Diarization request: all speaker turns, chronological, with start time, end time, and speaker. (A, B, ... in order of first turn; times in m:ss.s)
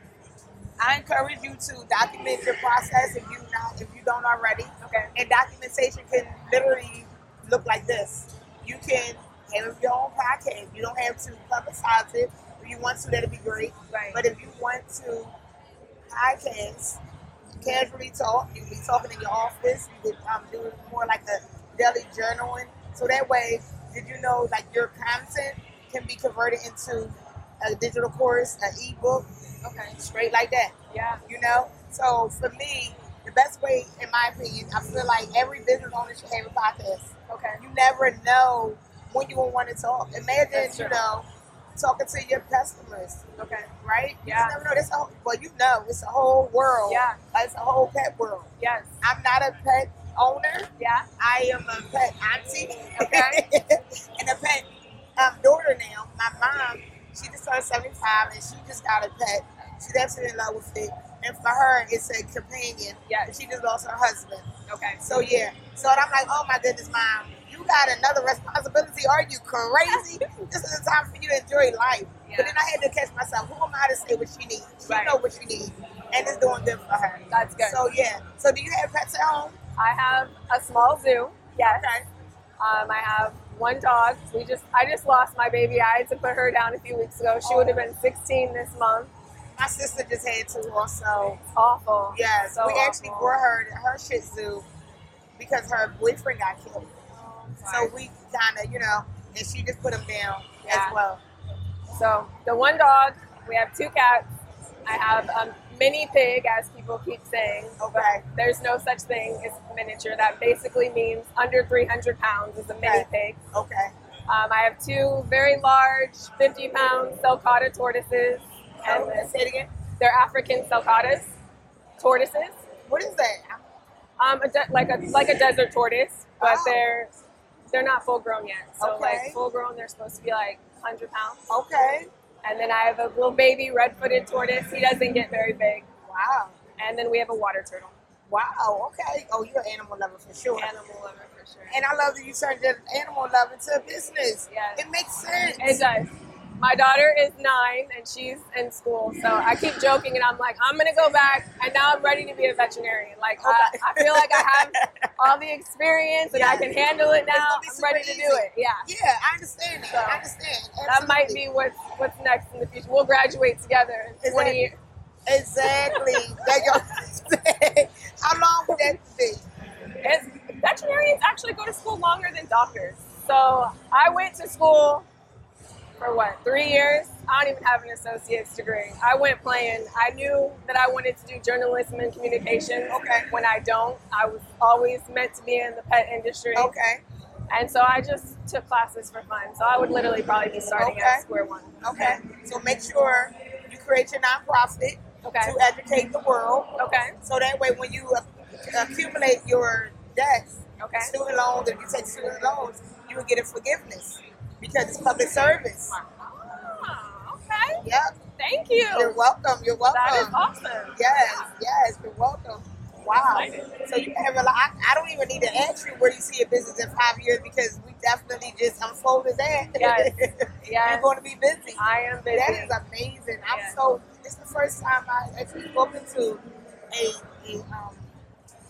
0:00.8-0:15.3 A
0:04.8-0:05.1 B
0:13.9-0:14.2 B
0:16.1-0:17.0 A
0:17.6-0:29.3 A
0:29.6-0:30.0 B
0:29.9-0:30.7 A
0:30.9-0:31.2 B
0:31.3-0:41.2 A
0:37.3-0:37.6 B
0:40.5-0:41.0 B
0:41.8-0:43.2 A
0:43.4-0:43.7 B
0:43.8-0:48.5 A
0:44.2-0:44.6 B
0:46.9-0:47.2 B
0:48.6-0:48.9 B
0:49.0-0:54.6 A
0:50.8-0:51.1 B
0:52.9-0:53.4 B
0:55.2-1:04.5 A
1:04.7-1:05.0 B
1:05.0-1:19.6 A
1:09.9-1:10.4 B
1:12.2-1:12.6 B
1:14.9-1:15.2 B
1:17.3-1:17.8 B
1:19.8-1:21.8 B
1:21.6-1:22.1 A
1:22.6-1:29.1 B
1:27.4-1:27.9 A
1:29.6-1:31.4 A
1:31.5-1:33.4 B
1:32.1-1:34.6 A
1:35.4-1:36.9 A
1:37.1-1:37.9 B
1:37.6-1:41.2 A
1:40.6-1:41.0 B
1:41.9-1:44.3 B
1:44.8-1:53.4 B
1:47.8-1:48.2 A
1:52.8-1:53.9 A
1:54.3-1:59.3 B
1:58.8-1:59.7 A
2:00.0-2:01.3 B
2:02.0-2:02.6 B
2:02.8-2:03.6 A
2:04.2-2:07.1 B
2:06.4-2:06.8 A
2:07.7-2:11.4 B
2:08.8-2:09.4 A
2:11.5-2:12.1 A
2:12.4-2:15.9 B
2:16.1-2:16.5 A
2:16.8-2:18.0 B
2:18.3-2:20.7 A
2:20.5-2:21.8 B
2:21.7-2:25.9 A
2:24.5-2:24.8 B
2:25.6-2:38.9 B
2:33.4-2:35.1 A
2:36.3-2:36.8 A
2:37.3-2:41.4 A
2:39.9-2:40.2 B
2:40.8-2:44.8 B
2:44.2-2:44.6 A
2:45.2-2:49.4 A
2:45.9-2:46.8 B
2:50.0-2:55.0 B
2:56.0-3:06.7 B
3:02.9-3:03.3 A
3:06.5-3:07.0 A
3:07.5-3:12.2 B
3:10.8-3:11.2 A
3:11.8-3:16.7 A
3:15.2-3:15.6 B
3:16.8-3:17.2 B
3:17.2-3:26.0 A
3:20.8-3:21.1 B
3:25.9-3:27.8 B
3:27.8-3:28.2 A
3:28.4-3:29.2 B
3:28.9-3:30.4 A
3:29.8-3:31.5 B
3:30.9-3:48.1 A
3:33.3-3:33.8 B
3:39.8-3:41.1 B
3:41.8-3:42.7 B
3:43.5-3:43.8 B